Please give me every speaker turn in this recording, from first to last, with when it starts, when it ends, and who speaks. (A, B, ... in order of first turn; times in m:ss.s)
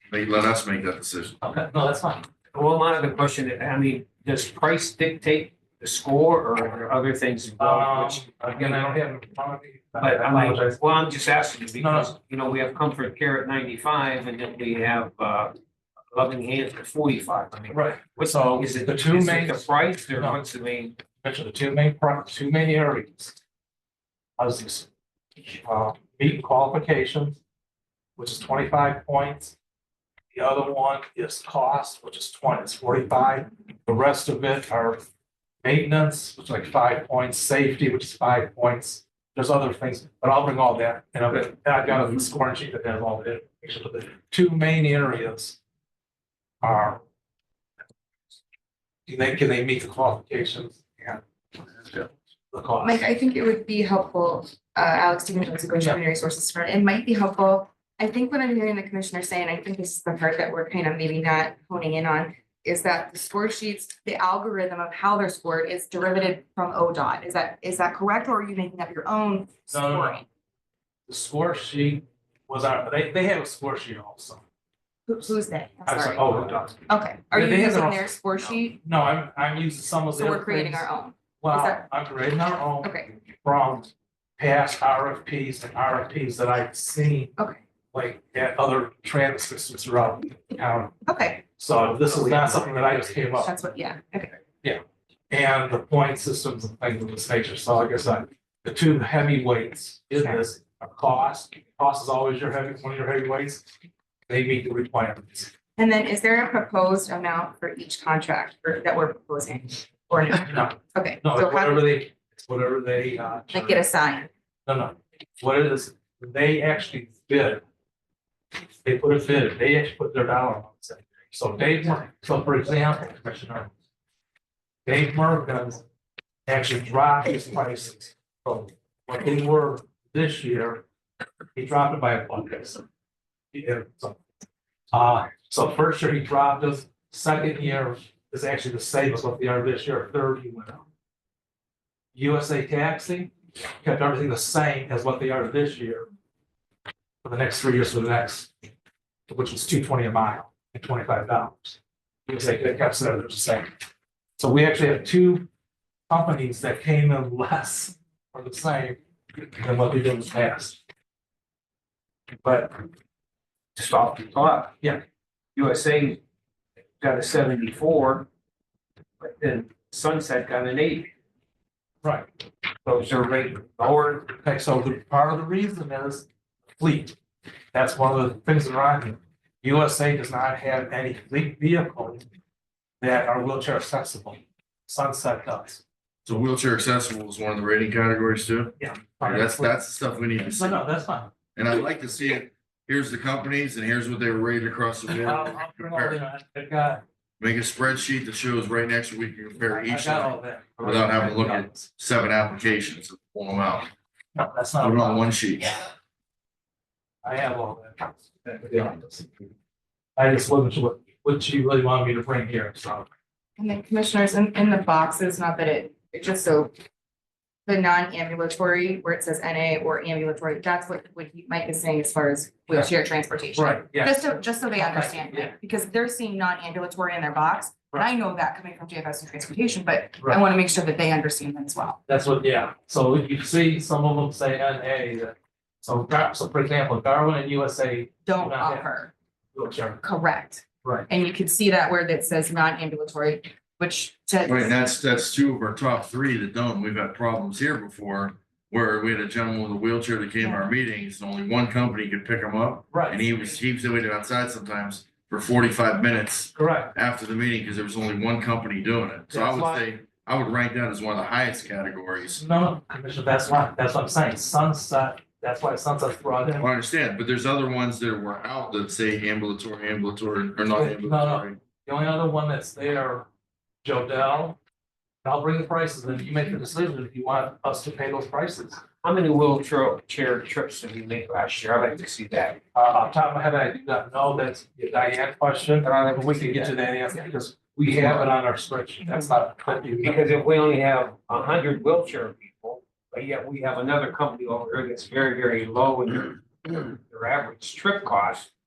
0:00.1-0:01.4 A
0:01.4-0:02.3 B
0:02.5-0:09.0 C
0:07.6-0:10.8 B
0:10.0-0:15.6 C
0:11.8-0:12.1 B
0:16.1-0:21.0 C
0:17.7-0:20.4 B
0:21.2-0:23.4 B
0:24.4-0:24.9 B
0:25.5-0:27.4 B
0:28.2-0:29.5 B
0:30.3-0:35.0 B
0:35.6-0:45.6 B
0:46.6-0:47.0 B
0:49.1-0:53.0 B
0:52.8-1:10.2 D
1:09.7-1:10.2 B
1:11.1-1:14.4 B
1:15.1-1:18.8 D
1:15.8-1:16.8 B
1:17.3-1:18.1 B
1:18.8-1:20.9 B
1:20.1-1:21.8 D
1:21.4-1:27.4 B
1:22.8-1:23.1 D
1:27.9-1:30.9 B
1:31.0-1:31.4 D
1:31.5-1:33.5 B
1:33.4-1:34.3 D
1:34.6-1:43.6 B
1:44.3-1:45.5 B
1:45.8-1:51.9 D
1:50.4-1:53.9 B
1:53.5-1:54.3 D
1:54.6-1:57.6 B
1:58.8-2:03.7 B
2:04.8-2:05.8 B
2:06.5-2:10.8 B
2:11.5-2:12.8 B
2:13.5-2:14.2 B
2:14.9-2:20.8 B
2:22.1-2:26.1 B
2:27.2-2:28.5 B
2:29.3-2:33.7 B
2:34.4-2:35.5 B
2:36.1-2:40.8 B
2:42.4-2:42.8 C
2:43.8-2:44.8 C
2:45.5-2:46.2 C
2:47.0-2:48.3 C
2:49.2-2:51.1 C
2:52.0-2:52.3 B
2:52.8-2:54.3 C
2:54.4-2:56.3 B
2:56.8-2:57.2 B
2:57.7-3:02.2 B
3:03.0-3:05.8 B
3:06.2-3:10.8 A
3:08.8-3:09.8 B
3:10.4-3:11.3 B
3:11.6-3:16.2 A
3:15.1-3:17.0 B
3:17.4-3:23.9 A
3:19.6-3:21.9 B
3:24.3-3:25.3 B
3:24.8-3:25.8 A
3:27.2-3:29.3 B
3:30.2-3:33.1 B
3:33.6-3:36.7 D
3:37.6-3:52.0 D
3:43.5-3:45.5 B
3:52.1-3:58.9 B
3:58.2-3:59.1 D
3:59.5-4:00.0 B
4:00.0-4:04.8 D
4:00.8-4:01.1 B
4:04.4-4:22.4 A
4:12.9-4:13.3 B
4:16.5-4:16.9 B
4:19.3-4:19.8 B
4:22.3-4:26.7 B
4:26.6-4:31.6 A
4:30.7-4:33.3 B
4:33.8-4:34.6 B
4:35.2-4:38.8 B
4:39.0-4:42.6 C
4:42.7-4:50.2 B
4:45.8-4:47.2 C
4:47.8-4:48.3 C
4:49.9-4:58.5 C